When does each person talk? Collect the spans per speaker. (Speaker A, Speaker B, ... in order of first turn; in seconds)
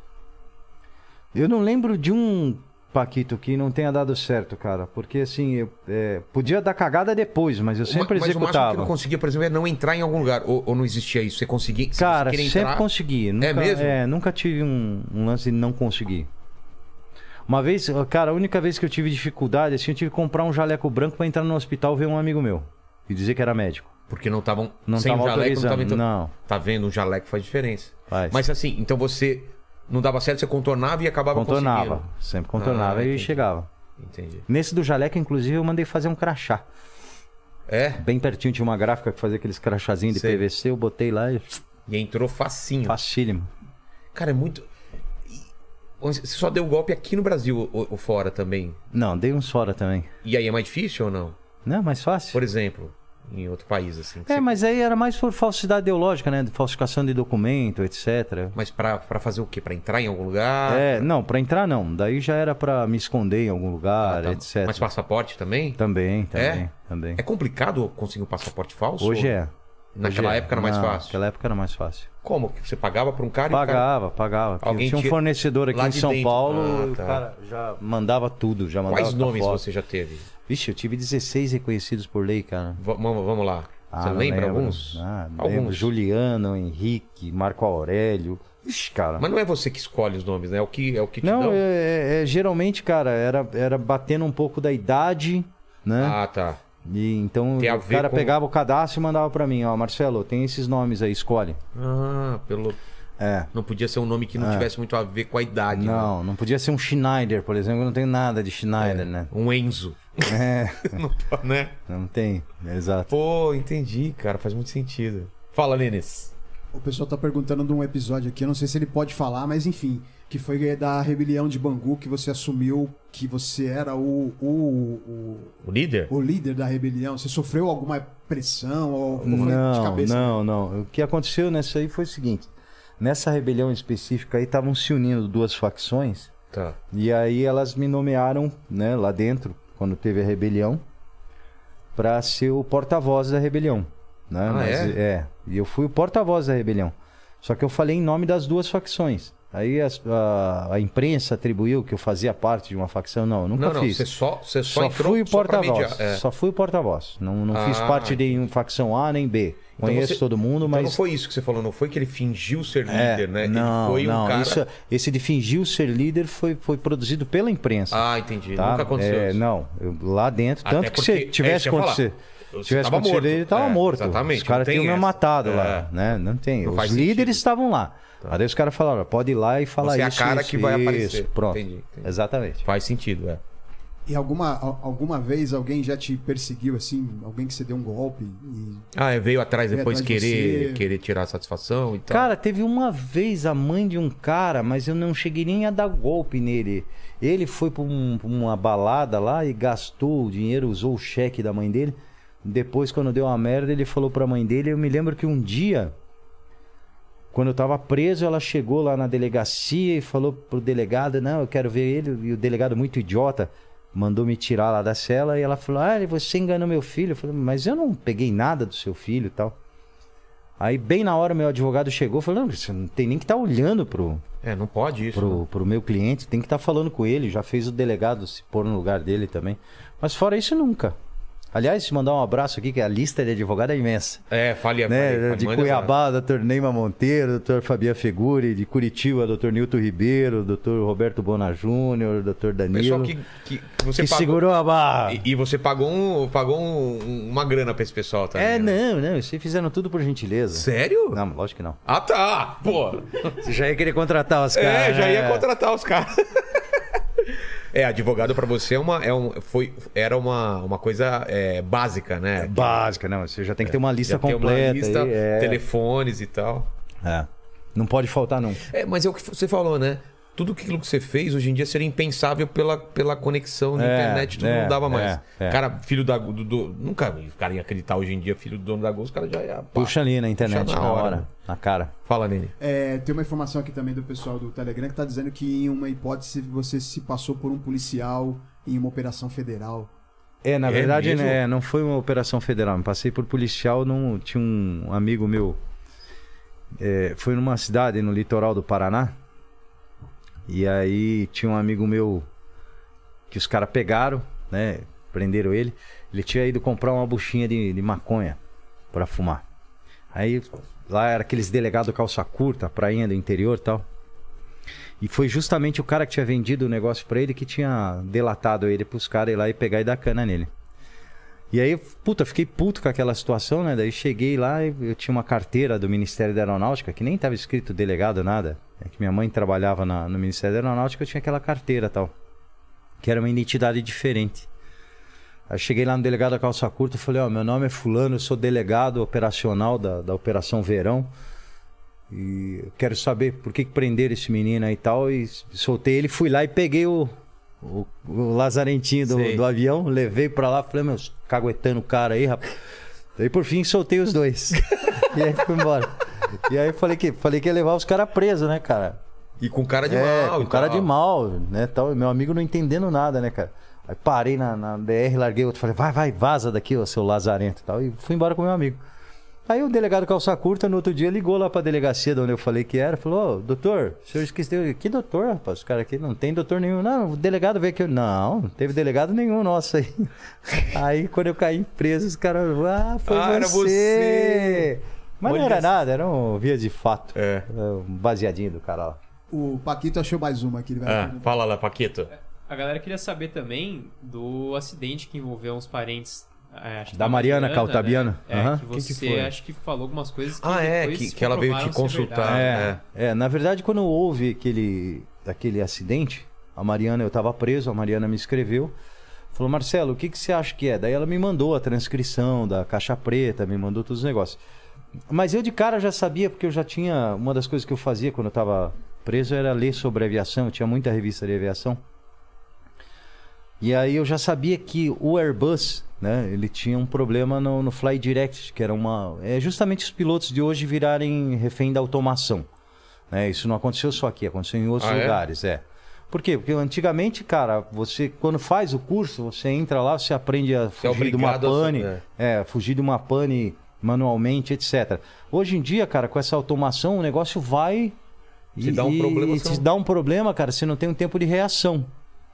Speaker A: 1.3-8.9, 12.0-16.3, 17.5-23.9, 24.9-26.3, 28.1-28.4, 31.3-33.7, 34.5-36.6, 38.0-41.6, 42.9-43.5, 48.9-50.1, 51.6-52.4, 54.3-58.6, 60.7-64.9, 65.8-67.2, 69.0-72.1, 73.5-79.6, 80.5-82.8, 83.9-89.3, 91.2-96.2, 96.8-101.6, 103.2-103.5, 104.4-104.7, 105.7-109.3, 110.3-111.0, 111.9-113.1, 129.3-136.3, 136.9-140.8, 142.0-154.1, 154.7-161.0, 162.9-182.6, 192.1-205.9, 207.3-219.6, 220.6-224.2, 225.1-230.9, 231.5-234.2, 234.9-243.2, 244.0-245.2, 248.3-251.8, 253.4-255.5, 262.4-265.6, 267.0-268.6, 273.8-275.6, 279.8-281.9, 290.4-295.6, 296.8-299.2, 300.5-302.3, 303.3-308.4, 308.9-309.4, 310.1-313.8, 315.0-320.5, 321.5-332.1, 333.0-334.5, 335.5-341.1, 342.1-352.6, 353.2-359.0, 359.9-368.8, 369.5-389.0, 396.9-399.3, 402.2-408.7, 409.3-414.4, 415.1-421.8, 423.6-432.5, 433.1-448.0, 448.6-451.9
Speaker B: 7.8-12.9, 13.4-14.0, 24.1-32.0, 32.6-33.4, 34.0-34.5, 37.7-38.0, 40.1-40.5, 41.9-43.0, 44.1-44.7, 46.0-48.8, 50.2-51.4, 52.3-54.6, 58.5-61.1, 64.0-65.8, 66.3-69.3, 70.0-71.2, 72.2-73.9, 74.6-75.2, 75.7-77.2, 78.9-80.3, 82.8-85.9, 89.2-91.6, 96.0-96.6, 97.6-98.4, 101.8-102.8, 103.5-106.1, 108.8-111.8, 113.1-116.3, 125.6-126.1, 129.2-129.6, 136.5-136.8, 144.4-145.0, 153.6-156.2, 157.5-158.4, 159.8-164.6, 167.9-169.4, 170.6-175.9, 176.6-177.4, 179.8-183.4, 188.9-192.3, 224.4-225.4, 234.3-235.9, 242.7-244.5, 245.1-248.8, 250.5-251.2, 251.9-253.3, 254.5-262.9, 263.6-266.7, 268.6-281.3, 282.1-282.5, 290.7-291.4, 349.1-349.4, 354.8-355.1, 359.4-360.9, 383.1-384.7, 385.2-385.8, 387.1-387.5, 390.9-392.1, 400.4-402.8, 434.8-435.2, 440.8-442.0, 448.6-449.7
Speaker C: 116.7-125.5, 126.1-130.4, 184.1-188.9, 189.7-190.8, 282.6-289.9, 389.3-391.3
Speaker D: 392.5-402.6